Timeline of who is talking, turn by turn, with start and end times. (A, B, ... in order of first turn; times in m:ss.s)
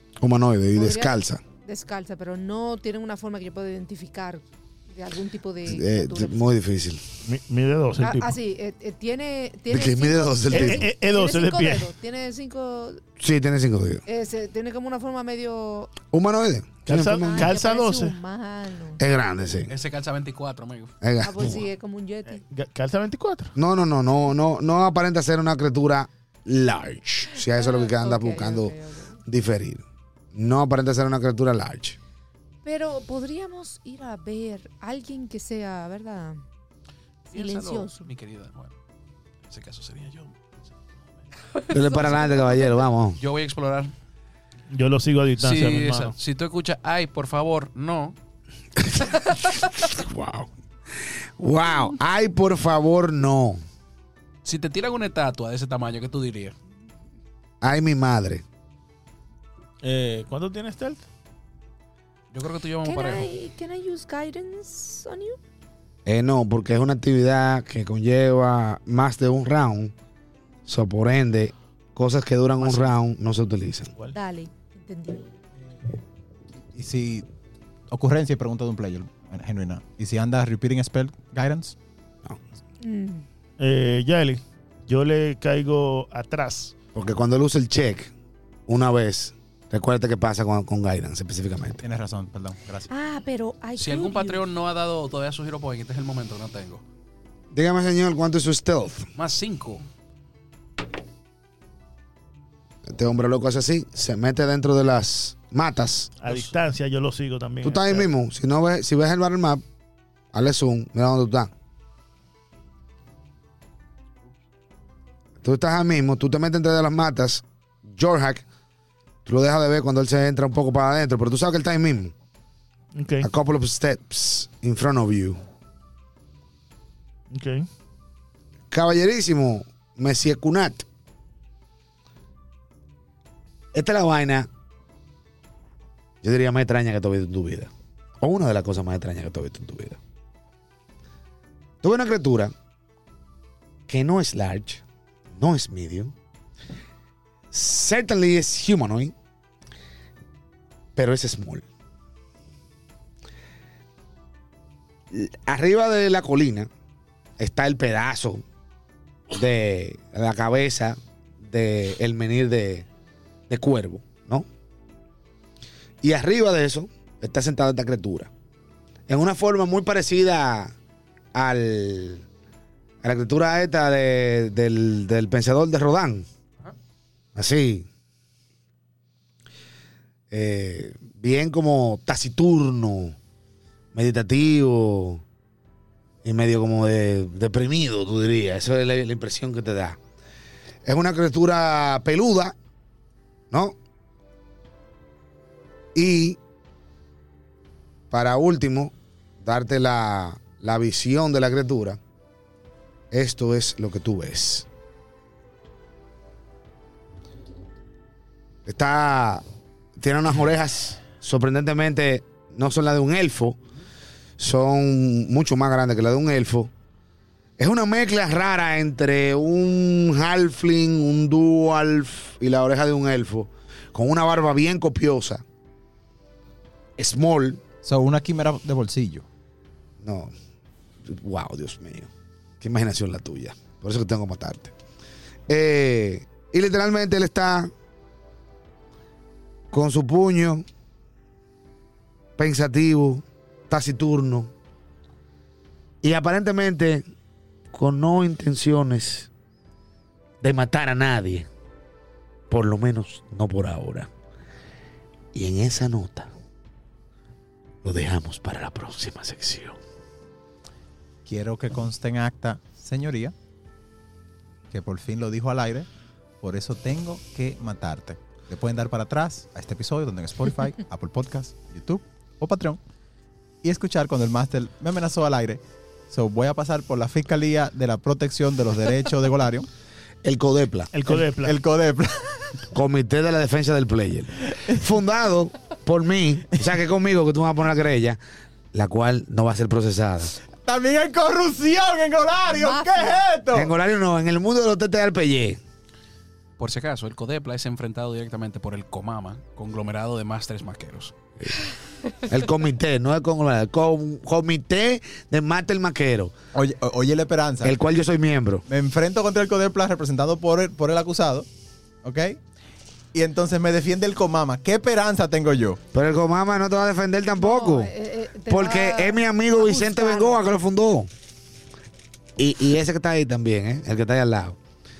0:00.2-0:01.4 A
0:00.7-0:06.5 B
0:05.6-0:07.0 A
0:07.2-0:08.4 C
0:08.0-0:13.0 B
0:09.7-0:10.9 A
0:10.5-0:11.9 C
0:13.2-0:14.0 A
0:14.0-0:15.9 B
0:16.1-0:17.5 A
0:16.8-0:18.1 C
0:17.2-0:19.0 B
0:19.0-0:19.7 A
0:19.7-0:20.9 D
0:21.0-0:21.6 A
0:21.2-0:22.4 B
0:22.4-0:23.5 C
0:23.6-0:28.7 A
0:27.3-0:29.2 B
0:29.2-0:32.0 A
0:32.6-0:36.4 B
0:37.3-0:38.7 D
0:37.3-0:38.1 B
0:39.4-0:41.2 D
0:41.5-0:42.8 B
0:41.7-0:43.2 A
0:43.2-0:43.9 D
0:44.7-0:46.1 C
0:45.4-0:48.2 D
0:48.8-0:50.5 A
0:51.4-0:53.6 A
0:54.4-0:56.6 D
0:57.6-0:58.4 A
0:59.8-1:01.0 C
1:02.3-1:03.3 D
1:02.8-1:05.4 B
1:06.0-1:09.9 A
1:10.6-1:13.9 A
1:12.6-1:12.9 C
1:14.1-1:15.3 B
1:16.7-1:17.3 E
1:17.9-1:21.8 E
1:22.8-1:23.2 B
1:23.6-1:26.7 C
1:26.9-1:28.1 A
1:28.7-1:31.8 A
1:31.8-1:32.9 E
1:32.9-1:34.4 B
1:33.8-1:36.8 D
1:37.5-1:39.1 A
1:39.1-1:39.8 D
1:42.9-1:46.1 A
1:46.2-1:48.1 C
1:47.6-1:49.6 A
1:50.3-1:51.5 A
1:55.4-1:58.4 A
1:59.2-2:02.1 A
2:02.9-2:03.3 C
2:03.2-2:05.4 A
2:07.3-2:07.7 C
2:08.7-2:10.8 A
2:13.7-2:14.5 A
2:16.2-2:20.0 A
2:21.8-2:22.5 A
2:23.9-2:26.1 A
2:27.5-2:29.1 A
2:31.0-2:31.6 A
2:35.1-2:36.7 A
2:37.4-2:38.4 A
2:39.3-2:42.8 A
2:43.5-2:44.4 A
2:46.0-2:48.3 A
2:49.1-2:50.7 A
2:51.3-2:52.2 A
2:53.0-2:56.2 A
2:57.3-2:57.9 A
3:00.3-3:03.2 A
3:03.9-3:05.2 A
3:06.2-3:10.0 A
3:10.8-3:12.5 A
3:13.5-3:13.8 A
3:15.9-3:16.4 A
3:18.1-3:22.0 A
3:23.1-3:24.6 A
3:28.6-3:29.4 A
3:30.0-3:33.6 A
3:34.4-3:36.7 A
3:37.6-3:45.4 A
3:47.0-3:47.6 A
3:47.8-3:49.2 E
3:50.0-3:50.3 A
3:51.0-3:52.1 A
3:52.6-3:54.7 A
3:55.5-3:57.7 A
3:59.7-4:00.6 A
4:02.4-4:04.5 A
4:06.0-4:07.0 A
4:07.7-4:09.3 A
4:10.4-4:11.5 A
4:12.5-4:14.1 A
4:15.3-4:16.3 A
4:17.8-4:19.8 A
4:21.2-4:23.3 E
4:24.7-4:25.9 E
4:26.4-4:32.8 E
4:33.6-4:39.7 E
4:40.2-4:40.9 A
4:40.9-4:41.6 C
4:41.0-4:42.6 E
4:42.7-4:48.2 A
4:48.7-4:50.3 A
4:50.6-4:53.7 E
4:52.5-4:53.2 B
4:53.5-4:55.6 A
4:56.6-5:01.1 D
5:02.3-5:06.3 A
5:06.5-5:07.8 E
5:07.6-5:08.6 A
5:08.7-5:11.5 E
5:12.0-5:12.4 E
5:13.1-5:15.8 E
5:15.9-5:17.9 A
5:17.4-5:20.4 B
5:18.5-5:21.1 A
5:22.4-5:24.6 A